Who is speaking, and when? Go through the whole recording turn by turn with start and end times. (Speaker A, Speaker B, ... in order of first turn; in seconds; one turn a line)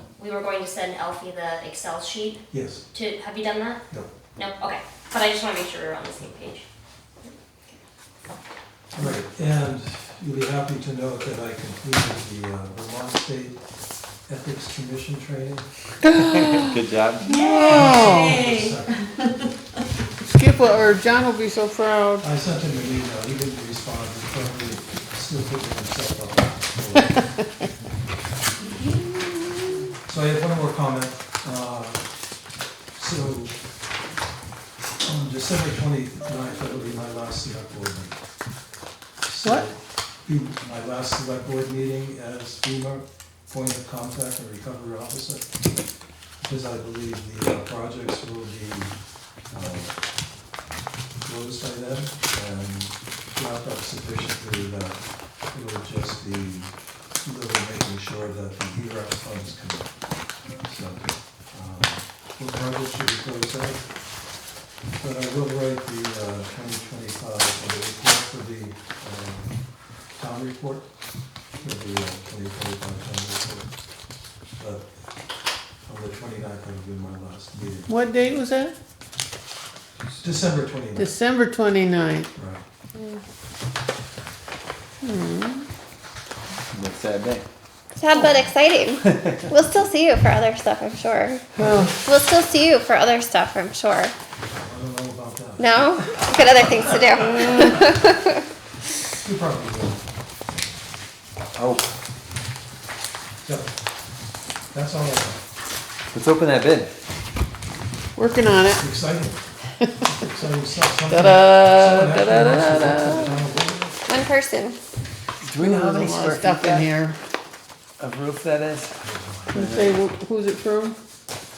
Speaker A: 0.2-3.8
Speaker B: 2.5-2.9
Speaker A: 4.3-6.6
Speaker A: 7.2-7.8
Speaker B: 8.9-13.7
Speaker B: 14.2-15.7
Speaker C: 16.7-17.3
Speaker A: 17.2-18.8
Speaker D: 17.3-18.4
Speaker B: 17.6-19.1
Speaker D: 20.2-22.2
Speaker B: 22.2-27.3
Speaker B: 30.0-32.1
Speaker B: 32.9-33.6
Speaker B: 35.0-38.2
Speaker B: 39.2-45.6
Speaker B: 46.4-49.0
Speaker B: 49.5-50.0
Speaker B: 51.2-64.2
Speaker B: 64.9-71.0
Speaker B: 71.6-73.8
Speaker B: 74.6-74.9
Speaker B: 75.8-77.9
Speaker D: 77.9-78.7
Speaker B: 80.2-81.2
Speaker D: 80.9-82.3
Speaker B: 82.3-82.6
Speaker D: 85.0-85.7
Speaker C: 86.7-87.4
Speaker E: 88.0-94.1
Speaker B: 91.6-92.0
Speaker D: 91.6-91.9
Speaker B: 94.5-95.7
Speaker E: 95.6-98.4
Speaker B: 99.0-100.1
Speaker C: 101.5-101.9
Speaker B: 103.4-103.7
Speaker B: 104.7-105.4
Speaker C: 106.1-106.9
Speaker D: 108.2-108.9
Speaker B: 108.5-114.0
Speaker D: 111.1-113.3
Speaker E: 114.1-114.8
Speaker C: 115.4-116.9
Speaker D: 115.6-117.2
Speaker C: 118.0-119.0
Speaker B: 119.0-119.7
Speaker D: 119.5-121.0